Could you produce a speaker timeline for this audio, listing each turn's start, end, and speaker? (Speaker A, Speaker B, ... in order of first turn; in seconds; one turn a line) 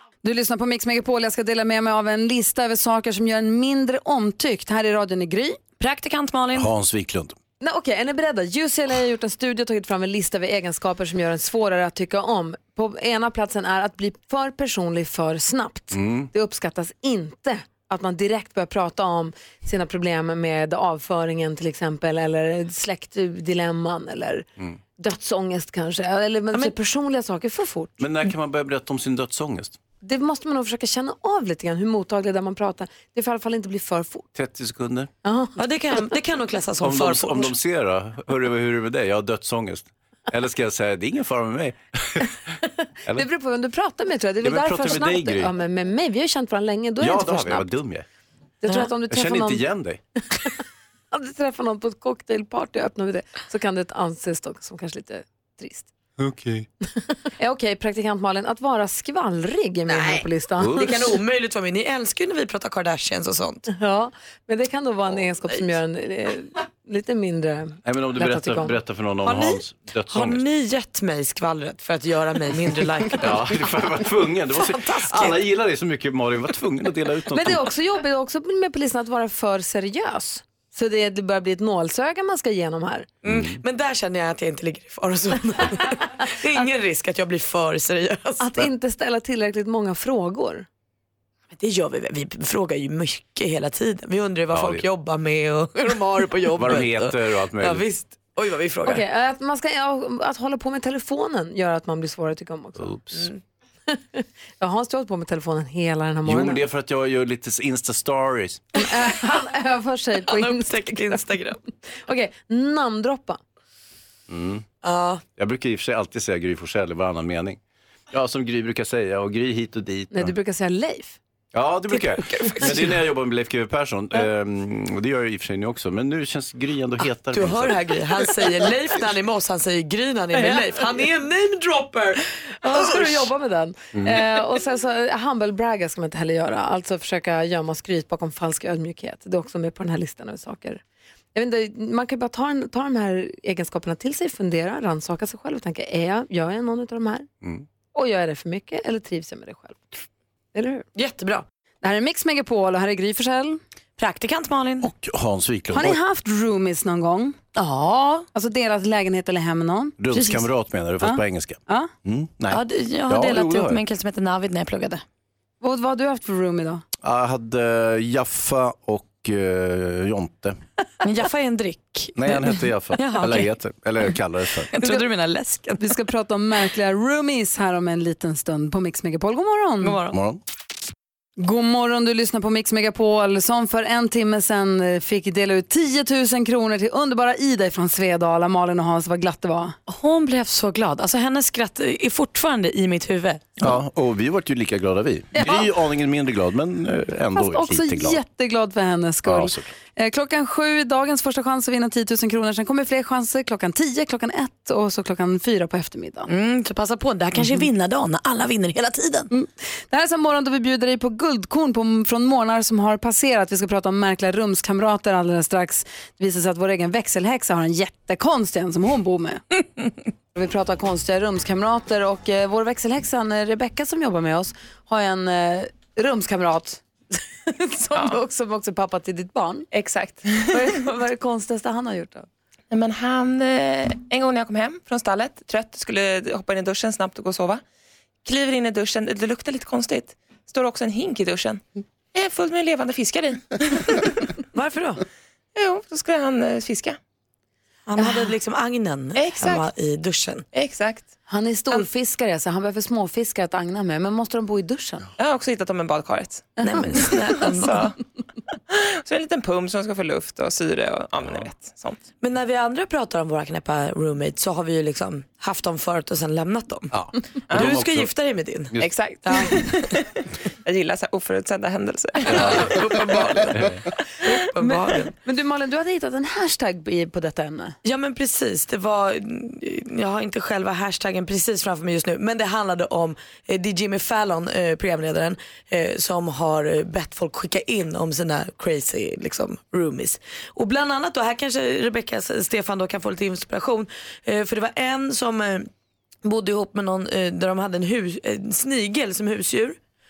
Speaker A: 0.2-5.6
Speaker B: 5.8-6.7
Speaker C: 6.5-7.3
Speaker A: 7.6-24.4
Speaker C: 15.9-16.3
Speaker A: 25.0-28.0
Speaker C: 28.0-29.8
Speaker A: 30.0-34.2
Speaker C: 34.3-35.1
Speaker A: 35.2-35.6
Speaker B: 35.6-37.5
Speaker C: 36.8-42.4
Speaker A: 43.1-47.7
Speaker C: 44.4-45.5
Speaker C: 47.0-48.0
Speaker A: 48.6-49.6
Speaker C: 49.1-50.0
Speaker A: 51.1-55.9
Speaker C: 56.2-56.7
Speaker A: 57.4-61.0
Speaker B: 59.9-63.6
Speaker C: 60.6-60.9
Speaker A: 63.7-68.7
Speaker C: 67.8-70.4
Speaker B: 69.2-73.6
Speaker C: 73.2-77.7
Speaker B: 74.5-75.4
Speaker A: 77.3-83.1
Speaker C: 83.2-83.6
Speaker B: 83.2-88.5
Speaker A: 88.4-90.7
Speaker B: 91.5-99.0
Speaker C: 94.5-94.8
Speaker C: 96.5-97.8
Speaker A: 98.8-103.1
Speaker C: 102.8-103.3
Speaker A: 103.9-106.6
Speaker C: 106.2-108.6
Speaker A: 108.8-111.2
Speaker B: 110.3-111.6
Speaker A: 112.1-113.4
Speaker C: 114.3-114.7
Speaker B: 114.8-115.2
Speaker C: 115.4-117.6
Speaker C: 118.1-120.3
Speaker A: 120.1-121.2
Speaker C: 121.5-127.8
Speaker B: 121.9-123.0
Speaker B: 127.3-133.1
Speaker A: 130.3-130.8
Speaker A: 132.6-140.8
Speaker C: 133.9-134.2
Speaker A: 141.3-147.2
Speaker A: 147.9-150.0
Speaker A: 150.5-150.8
Speaker B: 150.9-151.4
Speaker A: 151.8-153.6
Speaker B: 154.0-154.9
Speaker C: 154.8-156.0
Speaker A: 155.7-160.4
Speaker C: 160.0-163.8
Speaker A: 161.0-161.9
Speaker B: 162.5-165.0
Speaker A: 165.6-166.8
Speaker C: 167.0-170.6
Speaker B: 171.0-173.5
Speaker C: 172.2-174.7
Speaker B: 174.7-176.0
Speaker A: 175.8-180.0
Speaker B: 179.8-180.2
Speaker C: 180.1-180.4
Speaker A: 181.4-189.8
Speaker B: 189.9-193.6
Speaker C: 193.6-198.2
Speaker A: 197.3-206.3
Speaker C: 199.2-199.7
Speaker B: 206.3-209.3
Speaker A: 209.3-219.4
Speaker A: 220.3-226.8
Speaker A: 227.4-229.7
Speaker D: 229.7-230.5
Speaker A: 230.3-232.3
Speaker D: 232.7-237.6
Speaker D: 238.2-241.6
Speaker D: 242.1-244.2
Speaker B: 244.5-245.0
Speaker D: 245.6-247.0
Speaker B: 247.9-250.4
Speaker A: 248.0-248.2
Speaker D: 249.1-249.7
Speaker D: 250.5-251.1
Speaker A: 251.3-255.0
Speaker D: 255.2-258.0
Speaker B: 256.6-257.8
Speaker D: 258.7-262.1
Speaker B: 262.2-266.9
Speaker C: 266.9-268.1
Speaker B: 267.5-269.9
Speaker D: 268.8-269.6
Speaker D: 270.6-272.6
Speaker B: 272.3-275.1
Speaker C: 272.3-272.8
Speaker C: 273.5-273.8
Speaker A: 274.6-277.8
Speaker B: 277.8-295.7
Speaker B: 296.2-299.8